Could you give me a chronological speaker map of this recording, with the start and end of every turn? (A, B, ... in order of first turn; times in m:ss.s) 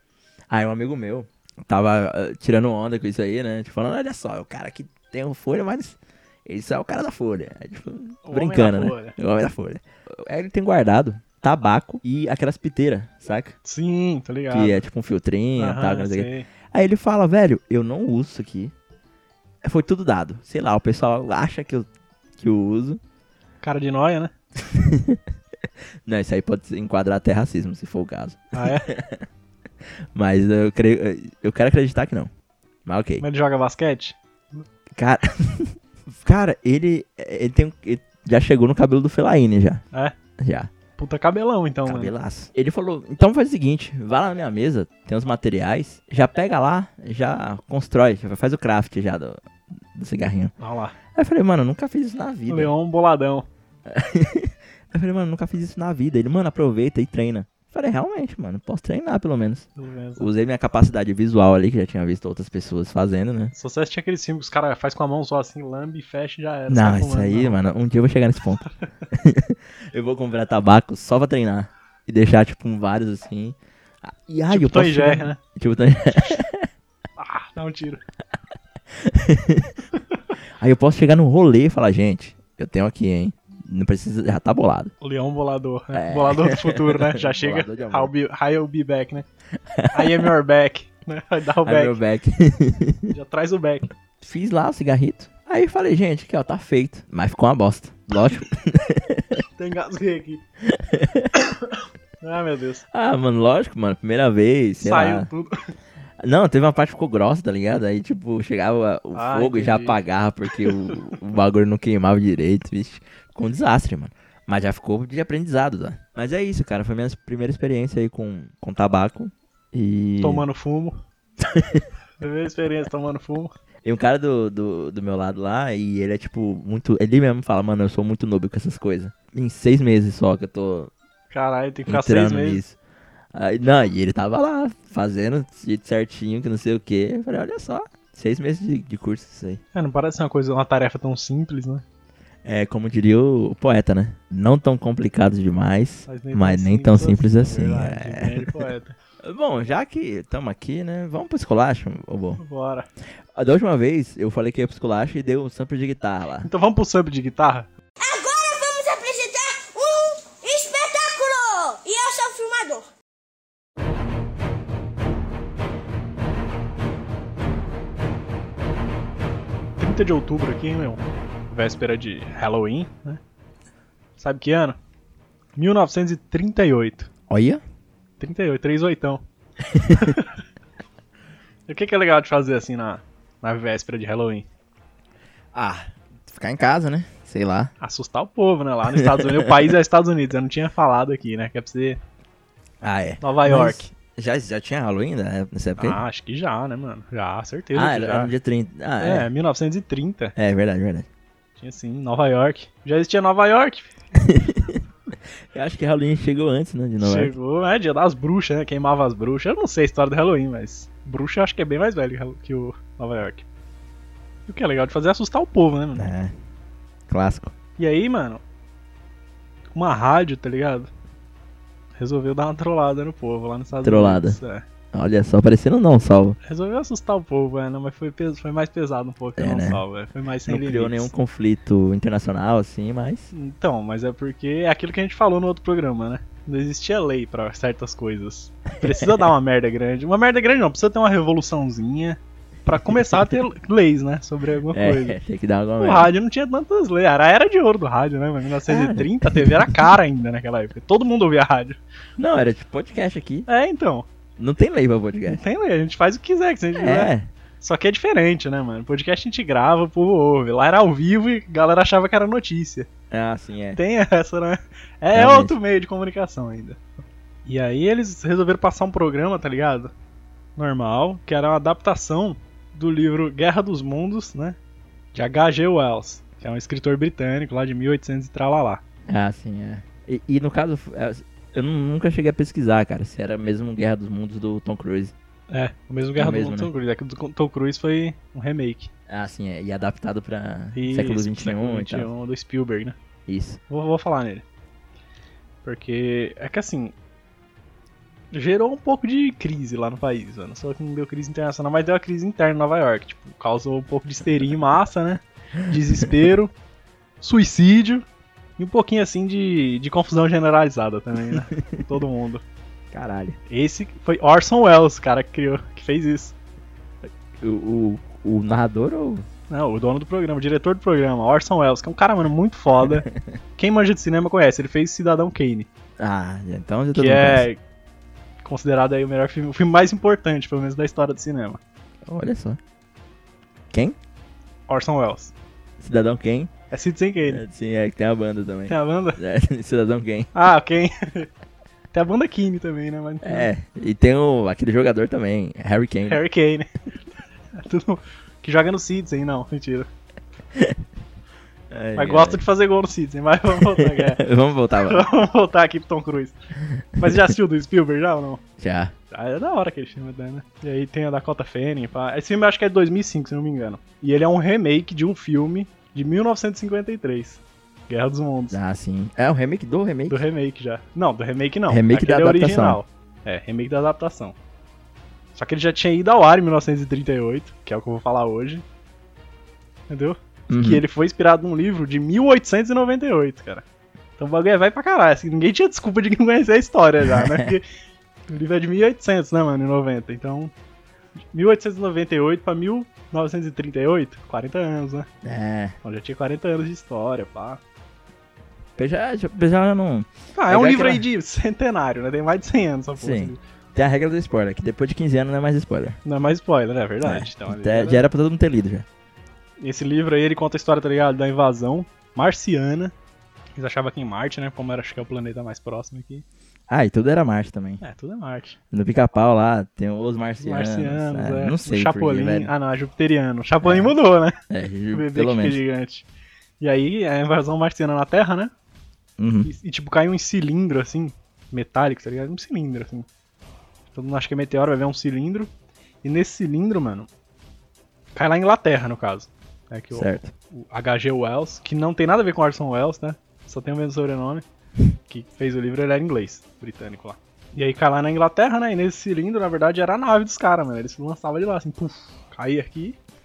0:00.5-0:13.6 A
0:08.2-0:09.1 B
0:13.6-0:14.8 B
0:14.5-0:18.7 A
0:15.6-0:16.5 B
0:19.6-0:23.0 A
0:23.6-0:24.3 B
0:24.6-0:25.2 A
0:26.0-0:29.2 A
0:28.5-0:28.9 B
0:30.1-0:32.3 A
0:32.8-0:33.2 A
0:33.2-0:34.2 B
0:34.9-0:39.8 A
0:40.4-0:40.7 A
0:41.0-0:42.1 B
0:41.8-0:49.4 A
0:49.9-0:50.5 A
0:50.6-0:51.0 B
0:51.1-0:52.7 A
0:52.5-0:53.5 B
0:53.9-1:03.5 A
0:59.8-1:00.3 B
1:03.5-1:07.6 B
1:06.7-1:16.7 A
1:14.5-1:15.4 B
1:17.2-1:18.0 B
1:18.9-1:19.8 A
1:20.6-1:24.9 A
1:25.0-1:29.2 B
1:25.9-1:28.1 A
1:29.7-1:30.3 A
1:29.9-1:32.0 B
1:31.6-1:33.1 A
1:33.1-1:33.9 B
1:34.2-1:39.4 A
1:39.4-1:40.4 B
1:40.7-1:41.3 A
1:41.3-1:42.8 B
1:42.9-1:45.3 A
1:44.8-1:45.7 B
1:46.2-2:00.4 A
1:49.1-1:50.0 B
1:50.7-1:50.9 B
2:00.2-2:01.0 B
2:01.4-2:01.8 A
2:02.2-2:03.5 B
2:03.8-2:10.9 A
2:11.3-2:12.6 B
2:11.9-2:12.8 A
2:13.3-2:19.6 A
2:19.7-2:21.8 B
2:22.4-2:28.7 A
2:26.1-2:29.0 B
2:29.2-2:32.4 A
2:32.4-2:32.9 B
2:33.3-2:36.5 A
2:36.4-2:37.7 B
2:38.0-2:42.8 C
2:49.8-2:53.2 B
2:54.2-2:54.8 B
2:55.6-2:57.1 B
2:57.3-2:57.6 A
2:58.2-2:59.2 B
2:59.7-3:00.1 A
2:59.9-3:00.4 B
3:01.7-3:04.5 B
3:05.5-3:07.7 A
3:07.8-3:12.0 B
3:09.0-3:09.6 A
3:12.8-3:16.0 A
3:13.2-3:13.9 B
3:15.8-3:18.3 B
3:17.7-3:19.3 A
3:19.0-3:20.3 B
3:20.4-3:21.1 A
3:21.6-3:23.9 B
3:24.2-3:24.8 A
3:25.5-3:27.3 A
3:27.0-3:33.4 B
3:34.5-3:36.1 B
3:36.0-3:36.3 A
3:37.1-3:37.5 A
3:37.8-3:38.4 B
3:39.7-3:40.9 B
3:42.0-3:44.6 B
3:43.8-3:44.4 A
3:44.9-3:46.4 A
3:46.4-3:51.1 B
3:49.4-3:49.8 A
3:50.5-3:53.3 A
3:53.3-4:05.2 B
3:58.8-3:59.3 A
4:02.9-4:03.4 A
4:04.7-4:06.1 A
4:05.8-4:11.8 B
4:08.7-4:09.8 A
4:12.2-4:13.5 A
4:13.5-4:14.1 B
4:14.4-4:15.4 A
4:15.2-4:22.9 B
4:16.8-4:17.3 A
4:23.1-4:23.8 A
4:23.8-4:26.8 B
4:25.1-4:25.6 A
4:27.4-4:29.9 B
4:30.6-4:34.6 B
4:35.1-4:38.8 B
4:39.1-4:45.1 A
4:45.5-4:48.9 B
4:46.2-4:46.7 A
4:49.1-4:52.1 A
4:50.7-4:53.0 B
4:53.3-4:53.6 A
4:53.7-4:54.4 B
4:55.6-4:56.9 B
4:58.3-5:06.5 B
5:07.2-5:08.0 B
5:08.6-5:12.4 B
5:11.3-5:11.6 A
5:12.9-5:13.4 A
5:13.5-5:16.3 B
5:17.4-5:19.3 A
5:19.5-5:25.7 B
5:26.0-5:27.5 A
5:26.9-5:27.6 B
5:28.4-5:31.6 B
5:32.0-5:32.6 A
5:33.7-5:34.0 A
5:34.7-5:35.3 B
5:35.8-5:36.5 A
5:36.7-5:37.4 B
5:37.2-5:40.3 A
5:38.7-5:39.2 B
5:40.3-5:41.3 B
5:41.9-5:43.5 B
5:43.2-5:46.2 A
5:46.1-5:46.7 B
5:47.5-5:49.9 B
5:50.5-5:50.8 A
5:51.7-5:52.4 A
5:51.9-5:54.2 B
5:53.6-5:55.1 A
5:54.8-5:56.4 B
5:57.0-5:57.3 A
5:57.0-5:58.4 B
5:58.6-5:58.9 A
5:59.1-6:08.6 B
6:08.5-6:10.2 A
6:10.1-6:14.4 B
6:11.7-6:12.8 A
6:15.3-6:18.6 B
6:19.9-6:23.6 B
6:20.5-6:20.8 A
6:24.2-6:27.6 B
6:27.0-6:27.6 A
6:28.3-6:30.5 B
6:31.3-6:35.1 B
6:35.2-6:35.7 A
6:35.8-6:37.6 B
6:38.8-6:41.0 A
6:40.3-6:43.4 B
6:43.0-6:46.0 A
6:46.0-6:48.0 B
6:47.0-6:48.8 A
6:49.6-6:52.9 B
6:53.6-6:56.2 B
6:56.7-6:57.8 A
6:57.8-6:58.6 B
6:58.7-7:02.5 A
7:00.4-7:04.4 B
7:03.6-7:03.9 A
7:04.5-7:05.6 A
7:04.9-7:06.1 B
7:06.6-7:08.5 B
7:09.2-7:09.5 A
7:09.4-7:13.0 B
7:13.9-7:15.5 B
7:16.0-7:17.1 B
7:18.1-7:24.4 B
7:19.9-7:20.3 A
7:25.1-7:33.0 B